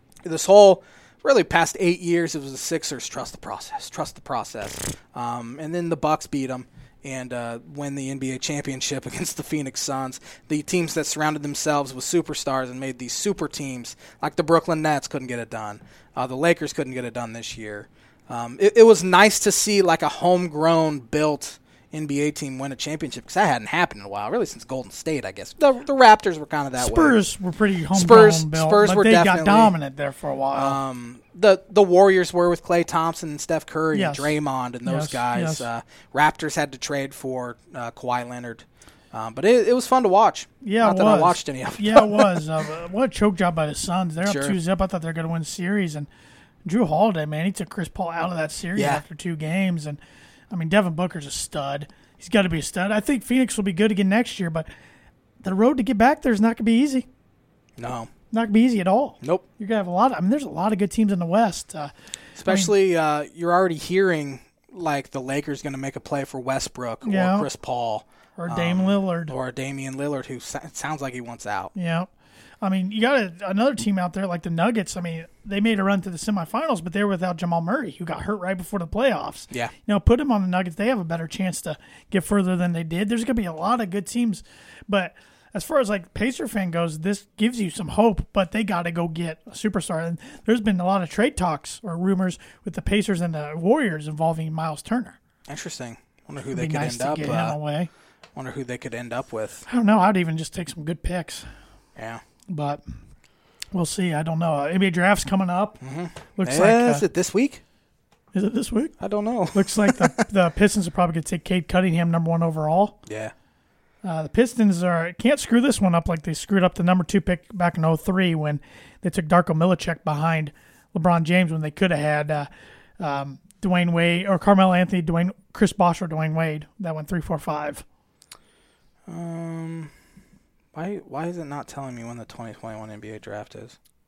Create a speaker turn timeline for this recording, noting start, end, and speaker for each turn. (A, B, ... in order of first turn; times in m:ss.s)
0:00.2-0:27.2 A
0:26.8-0:30.8 B
0:27.9-0:29.7 A
0:30.5-0:42.5 A
0:33.9-0:35.7 B
0:40.6-0:46.1 B
0:44.2-0:44.6 A
0:46.6-0:50.0 B
0:48.8-0:49.0 A
0:50.5-0:54.7 B
0:55.4-0:57.0 B
0:57.8-0:58.1 A
0:58.3-1:01.9 B
1:02.4-1:11.7 A
1:02.4-1:02.7 B
1:07.0-1:07.5 B
1:08.4-1:09.3 B
1:11.7-1:12.1 B
1:12.6-1:35.2 B
1:35.5-1:37.6 A
1:36.5-1:37.9 B
1:38.3-1:39.6 A
1:39.7-1:41.4 B
1:42.0-1:42.2 A
1:42.5-1:42.8 B
1:43.7-1:45.8 B
1:45.8-1:47.6 A
1:46.4-1:47.0 B
1:48.3-1:48.9 B
1:49.0-1:50.2 A
1:49.5-1:53.0 B
1:53.0-1:53.3 A
1:54.0-2:02.5 B
2:03.0-2:07.8 B
2:09.1-2:09.9 A
2:10.7-2:13.8 A